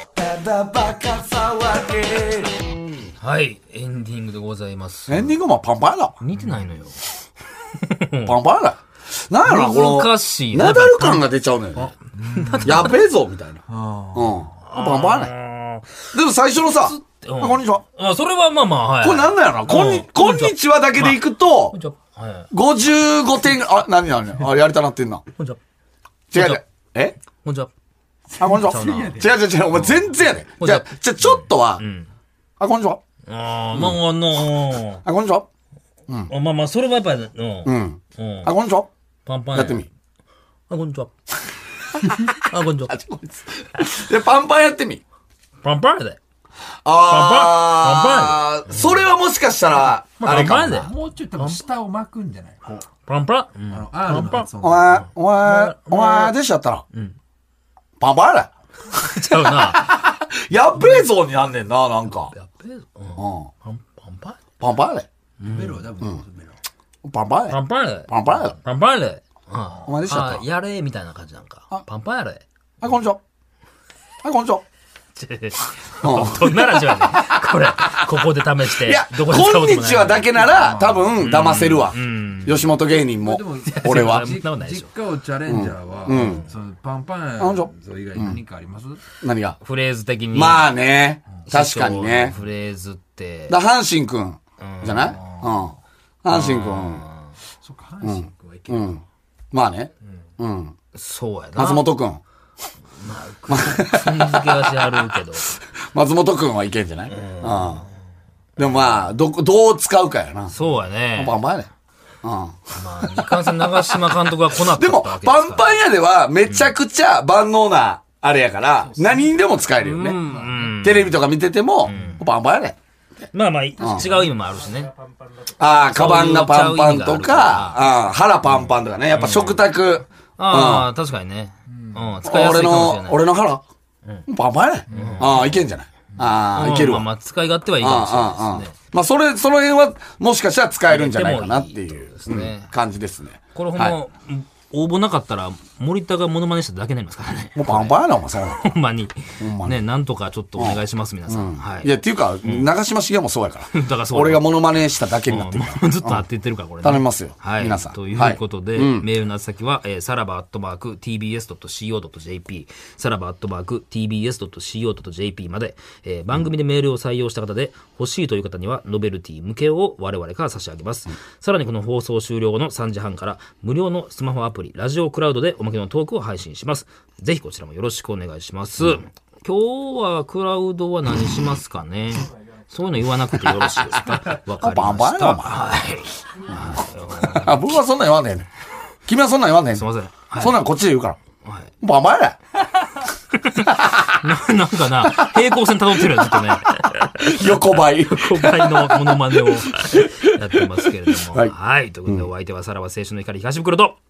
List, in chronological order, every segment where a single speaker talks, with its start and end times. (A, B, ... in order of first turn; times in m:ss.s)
0:00.2-0:02.7 A
0:03.2-0:05.4 B
0:05.1-0:06.2 A
0:06.2-0:07.0 B
0:07.7-0:08.4 B
0:08.2-0:11.9 A
0:09.4-0:13.0 B
0:12.1-0:12.9 C
0:12.6-0:13.6 A
0:13.7-0:14.4 C
0:14.1-0:15.3 A
0:14.6-0:16.1 B
0:16.1-0:17.8 A
0:16.8-0:22.5 B
0:19.0-0:21.8 A
0:22.5-0:25.2 A
0:26.3-0:27.2 A
0:26.3-0:26.6 B
0:27.4-0:27.7 B
0:28.4-0:31.8 A
0:28.4-0:29.3 C
0:28.4-0:30.0 B
0:30.6-0:32.1 B
0:32.6-0:33.0 A
0:33.3-0:35.0 B
0:33.7-0:34.0 A
0:35.0-0:35.5 A
0:36.3-0:38.5 B
0:37.6-0:38.9 A
0:39.2-0:39.8 B
0:39.5-0:39.9 A
0:40.7-0:41.1 B
0:42.3-0:43.0 B
0:42.9-0:45.0 A
0:45.6-0:46.2 B
0:46.8-0:50.8 A
0:47.0-0:49.0 B
0:50.2-0:51.6 B
0:50.6-0:52.9 C
0:53.1-0:54.5 B
0:53.7-0:55.1 C
0:54.6-0:56.8 A
0:55.4-0:56.3 B
0:58.0-1:02.3 A
0:58.9-1:00.1 B
1:02.3-1:04.4 B
1:03.2-1:03.5 A
1:04.6-1:05.1 A
1:05.4-1:05.8 B
1:05.4-1:06.6 C
1:07.0-1:07.6 A
1:07.5-1:12.4 B
1:08.1-1:08.6 A
1:09.9-1:10.4 A
1:12.8-1:13.2 A
1:14.2-1:14.6 A
1:15.2-1:20.3 B
1:16.0-1:18.2 A
1:18.8-1:24.3 A
1:20.3-1:21.2 C
1:21.2-1:22.7 B
1:23.0-1:29.0 C
1:23.6-1:24.9 B
1:25.5-1:26.5 A
1:26.1-1:26.5 B
1:27.4-1:28.4 A
1:29.2-1:29.6 A
1:29.6-1:30.7 B
1:30.3-1:32.4 A
1:31.4-1:33.6 B
1:33.5-1:37.0 A
1:34.6-1:35.2 B
1:35.1-1:35.7 C
1:36.3-1:37.3 B
1:37.6-1:39.0 C
1:38.0-1:40.7 A
1:40.9-1:41.9 B
1:41.6-1:42.2 A
1:43.0-1:45.5 B
1:43.5-1:47.8 A
1:47.1-1:47.8 B
1:48.6-1:50.5 A
1:50.5-1:51.4 B
1:51.1-1:51.7 A
1:52.2-2:02.8 A
1:52.8-1:55.8 B
1:58.9-1:59.3 C
1:59.8-2:01.2 B
2:00.2-2:00.6 C
2:01.9-2:02.2 B
2:03.3-2:04.9 B
2:03.8-2:04.4 C
2:03.8-2:04.1 A
2:05.6-2:10.9 A
2:05.9-2:07.8 B
2:09.1-2:09.6 B
2:10.4-2:13.2 B
2:11.7-2:12.1 C
2:12.2-2:13.6 A
2:14.3-2:17.1 A
2:14.9-2:15.2 C
2:14.9-2:15.6 B
2:16.5-2:18.7 B
2:17.8-2:24.0 A
2:20.9-2:22.7 B
2:23.5-2:28.0 B
2:27.6-2:28.7 A
2:28.6-2:32.7 B
2:29.4-2:29.8 A
2:30.6-2:36.2 A
2:33.7-2:34.4 B
2:35.3-3:07.8 B
2:36.8-2:39.1 A
3:03.4-3:05.9 A
3:06.7-3:08.5 A
3:09.1-3:09.8 A
3:09.7-3:10.6 B
3:10.4-3:11.2 A
3:11.4-3:11.7 B
3:11.8-3:12.4 A
3:13.4-3:24.0 B
3:13.7-3:14.2 A
3:15.0-3:15.4 A
3:16.0-3:16.6 A
3:17.2-3:21.5 A